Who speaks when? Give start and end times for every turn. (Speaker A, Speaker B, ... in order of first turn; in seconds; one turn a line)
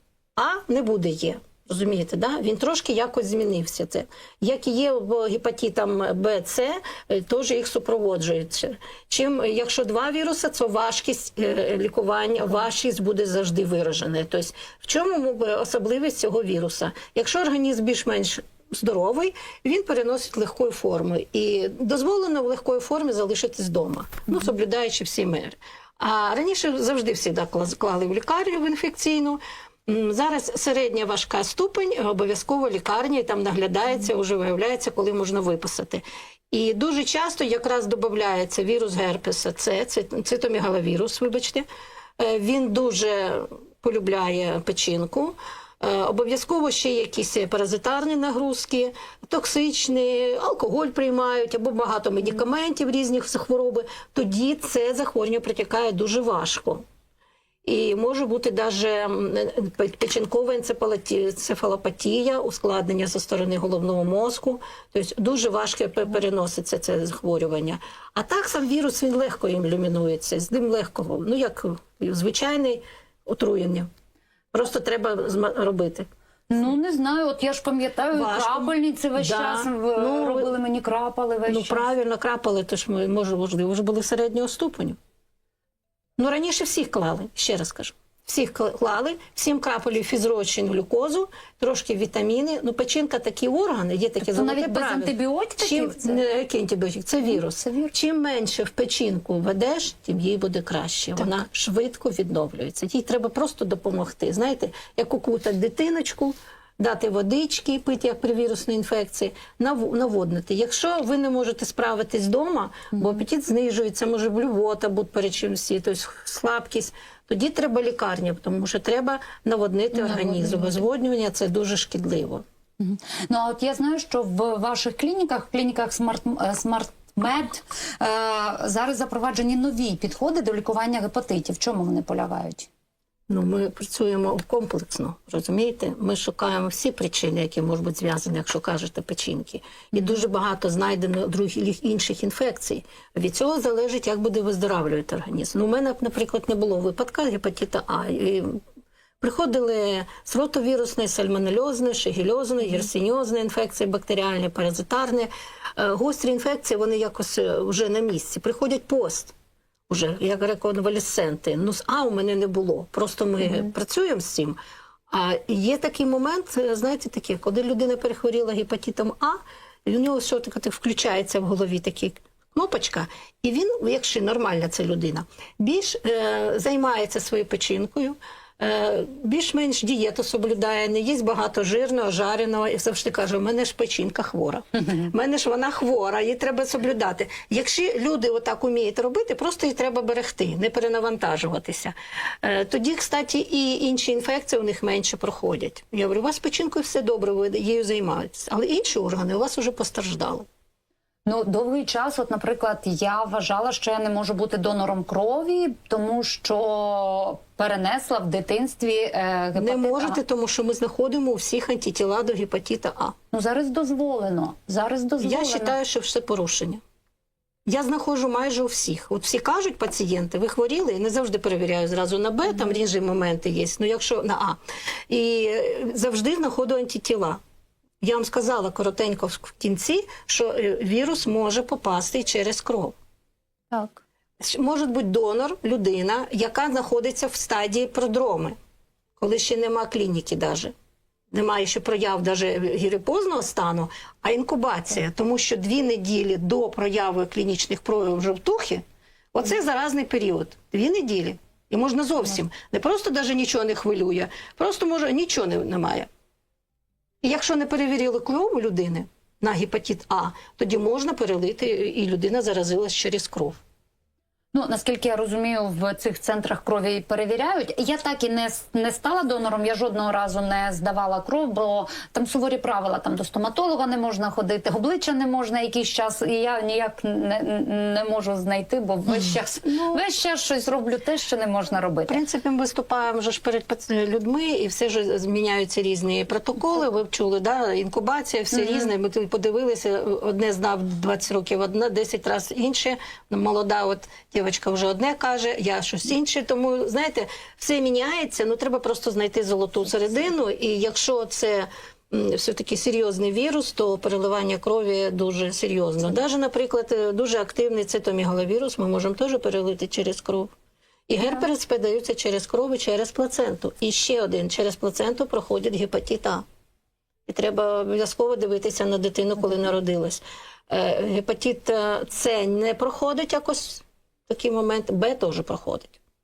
Speaker A: 0.3-41.6
Speaker A: 42.2-56.8
Speaker A: 57.6-73.9
Speaker A: 74.5-76.1
Speaker B: 76.5-81.8
Speaker A: 78.1-80.5
Speaker A: 81.5-85.0
Speaker A: 86.2-122.4
Speaker B: 94.2-96.2
Speaker B: 97.3-97.9
Speaker B: 120.0-120.7
Speaker B: 122.8-132.7
Speaker A: 133.3-148.6
Speaker A: 149.2-159.3
Speaker A: 159.9-164.6
Speaker A: 165.1-200.5
Speaker B: 201.2-210.2
Speaker A: 209.6-213.2
Speaker B: 213.3-215.7
Speaker A: 215.2-216.8
Speaker A: 217.7-227.4
Speaker A: 228.0-232.9
Speaker B: 233.7-234.0
Speaker A: 234.4-238.6
Speaker A: 239.2-240.7
Speaker A: 241.3-256.1
Speaker A: 257.2-263.6
Speaker B: 264.5-282.2
Speaker A: 279.6-280.0
Speaker A: 282.1-310.5
Speaker A: 311.1-316.4
Speaker A: 317.3-326.0